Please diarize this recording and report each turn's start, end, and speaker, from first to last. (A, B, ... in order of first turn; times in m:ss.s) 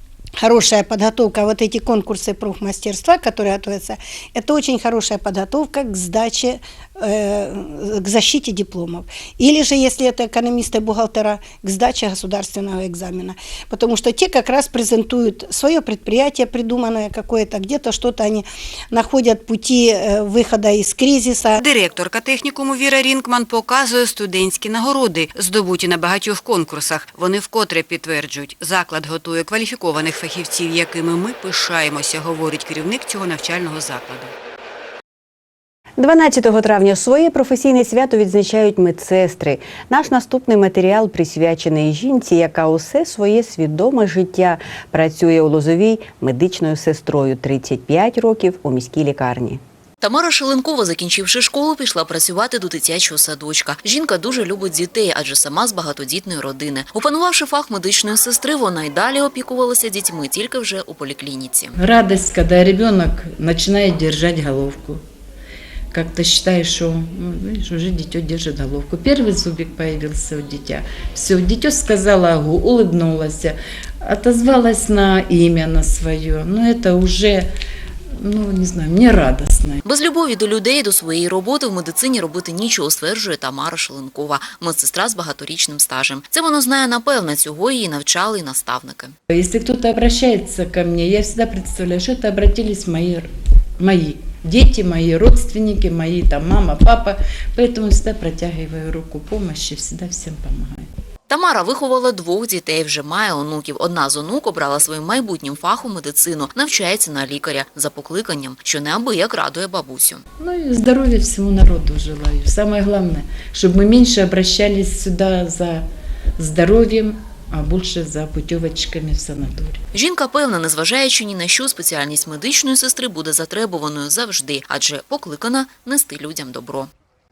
0:00.4-0:21.6 A
0:21.6-0:34.3 B
0:36.0-0:49.6 C
0:50.0-1:01.7 D
1:01.8-1:05.0 E
1:05.9-1:17.5 E
1:18.2-1:19.8 E
1:19.8-1:29.1 D
1:29.3-1:40.9 E
1:41.3-1:50.2 D
1:50.4-1:55.8 E
1:56.4-1:59.8 E
1:59.9-2:06.9 D